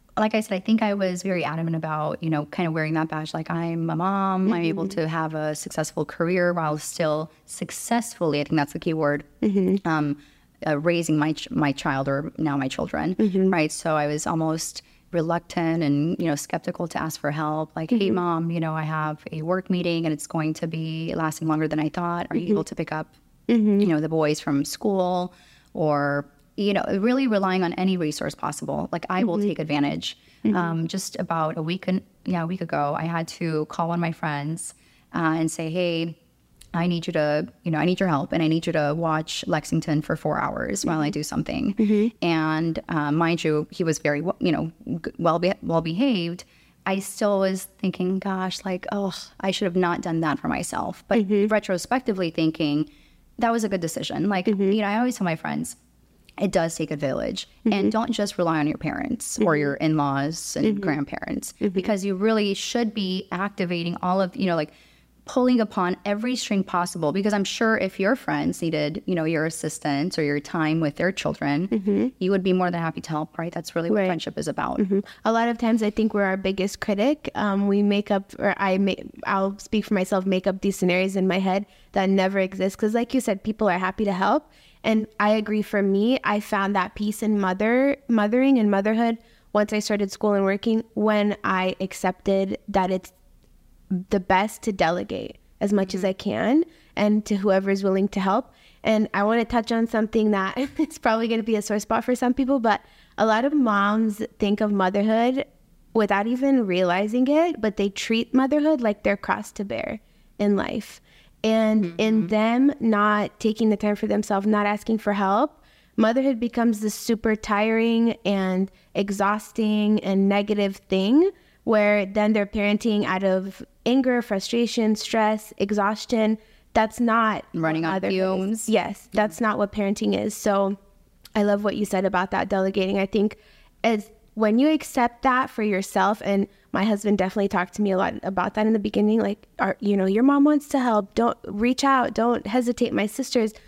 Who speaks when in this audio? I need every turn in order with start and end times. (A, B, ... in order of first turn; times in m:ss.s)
0:00.2-0:09.3 A
0:04.5-0:05.0 B
0:09.4-0:09.8 B
0:09.8-0:23.2 A
0:13.2-0:13.5 B
0:17.9-0:18.2 B
0:23.5-0:23.9 B
0:23.8-0:36.2 A
0:29.2-0:29.5 B
0:36.7-0:55.8 A
0:41.8-0:42.1 B
0:51.2-0:51.5 B
0:54.5-0:54.8 B
0:56.4-1:04.7 A
0:57.7-0:57.9 B
1:00.6-1:01.0 B
1:05.3-1:14.8 A
1:11.7-1:12.1 B
1:13.9-1:14.2 B
1:14.8-1:33.1 B
1:33.9-2:10.8 B
1:51.8-1:52.3 A
2:07.5-2:08.7 A
2:11.4-2:23.5 B